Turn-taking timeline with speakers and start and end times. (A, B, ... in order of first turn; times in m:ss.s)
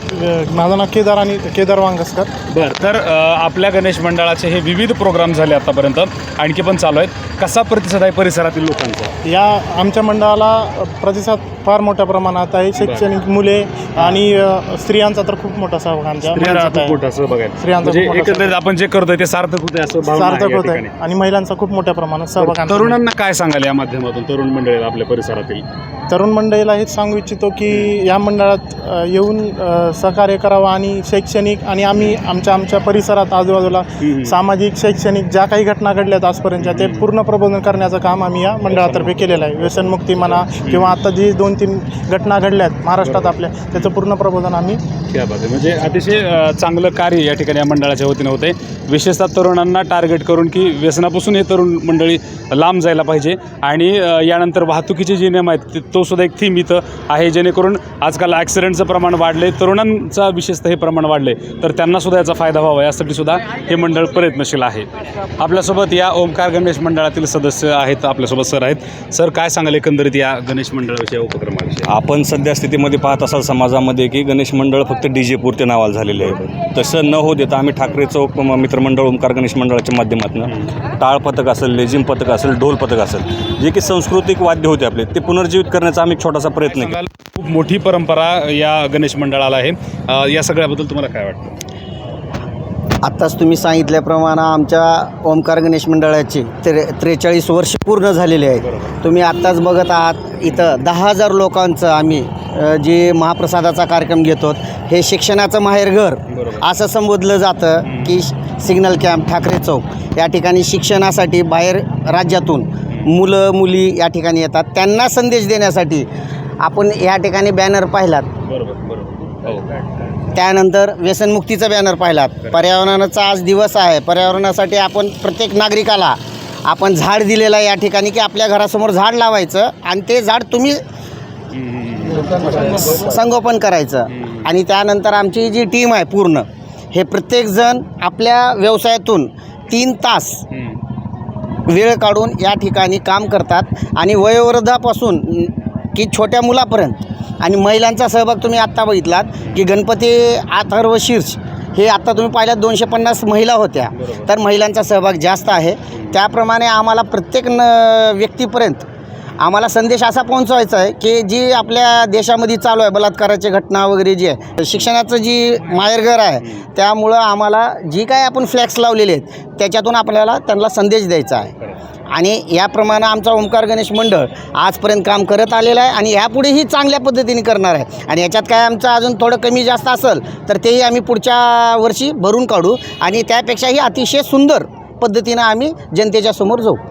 0:00.1-0:02.3 A
0:02.5-0:09.1 B
0:09.2-0:17.0 A
0:12.8-0:13.1 B
0:16.2-0:20.9 B
0:17.6-0:18.6 A
0:20.1-0:23.0 A
0:22.4-0:25.6 B
0:26.1-0:44.8 A
0:27.7-0:28.0 B
0:34.0-0:34.4 B
0:36.6-0:37.1 B
0:38.7-0:41.0 B
0:43.0-0:43.9 B
0:45.1-1:04.9 B
1:05.4-1:11.9 B
1:11.9-1:27.0 C
1:26.7-1:31.6 B
1:33.0-1:56.1 D
1:38.6-1:38.9 B
1:40.5-1:40.8 B
1:46.3-1:46.6 B
1:47.8-1:48.2 B
1:56.6-1:58.3 D
1:58.5-1:59.8 B
2:00.3-2:10.8 D
2:11.5-2:12.5 B
2:12.8-2:20.4 D
2:14.1-2:14.5 B
2:20.5-2:20.8 B
2:21.7-2:38.8 D
2:34.0-2:34.3 B
2:35.9-2:36.2 B
2:39.4-2:51.5 D
2:52.1-3:06.8 D